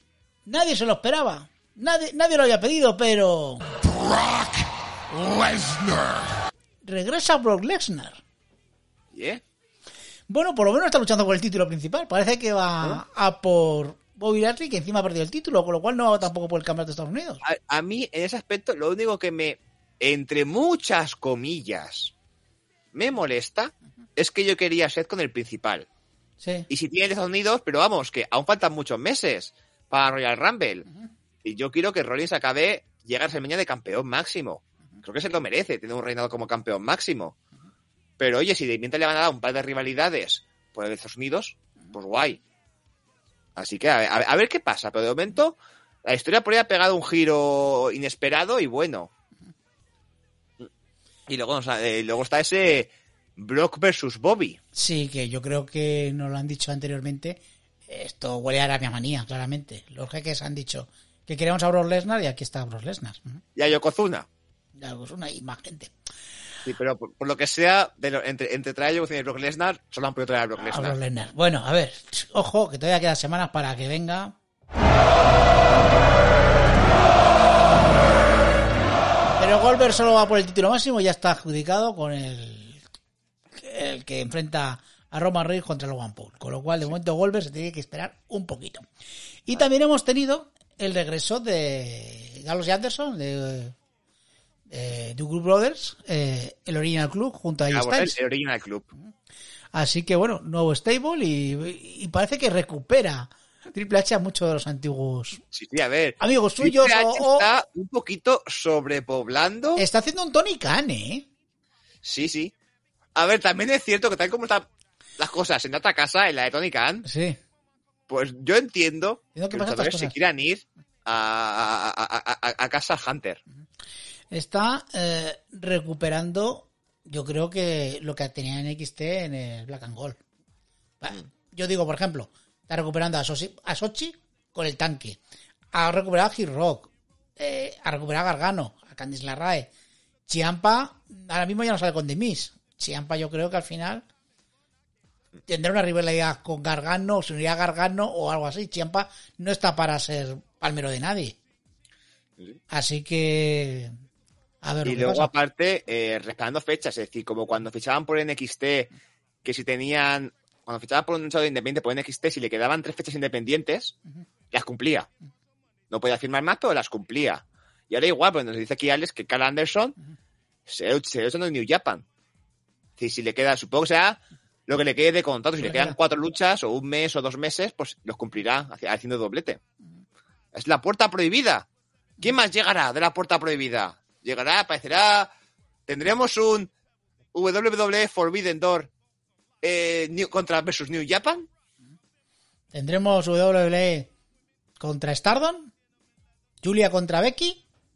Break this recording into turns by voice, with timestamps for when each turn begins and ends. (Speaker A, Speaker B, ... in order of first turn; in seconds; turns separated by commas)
Speaker A: 0.5-3.7, Speaker B: 3.8-6.2, Speaker A: 6.8-8.2, Speaker C: 9.1-9.4, Speaker A: 10.3-17.4, Speaker C: 17.4-22.1, Speaker C: 22.9-25.9, Speaker A: 26.4-26.7, Speaker C: 26.7-30.9, Speaker C: 31.4-37.4, Speaker C: 38.2-42.4, Speaker C: 43.6-49.1, Speaker C: 51.3-54.6, Speaker A: 54.8-63.4, Speaker C: 63.6-64.3, Speaker A: 64.8-65.9, Speaker C: 66.7-71.0, Speaker A: 70.6-74.4, Speaker A: 79.4-82.8, Speaker A: 83.6-88.8, Speaker A: 89.5-93.8, Speaker A: 94.7-98.2, Speaker C: 97.7-98.9, Speaker A: 99.7-105.4, Speaker C: 105.5-109.8, Speaker A: 106.2-107.5, Speaker A: 109.8-111.3, Speaker C: 112.0-112.5, Speaker C: 113.2-114.7, Speaker C: 115.2-117.1, Speaker A: 117.0-117.4, Speaker C: 118.1-123.4, Speaker A: 119.3-120.2, Speaker A: 124.3-130.2, Speaker A: 131.0-135.2, Speaker A: 135.7-139.7, Speaker A: 140.3-144.0, Speaker A: 145.5-151.4, Speaker A: 152.7-153.9, Speaker A: 154.6-155.3, Speaker C: 154.8-158.9, Speaker C: 159.4-163.9, Speaker C: 164.5-165.1, Speaker C: 165.9-170.0, Speaker C: 170.7-172.1, Speaker C: 173.0-179.6, Speaker C: 180.5-181.7, Speaker C: 182.2-185.3, Speaker C: 185.9-186.7, Speaker C: 187.3-188.9, Speaker C: 189.6-191.5, Speaker A: 192.7-194.1, Speaker A: 194.8-195.7, Speaker A: 196.6-197.6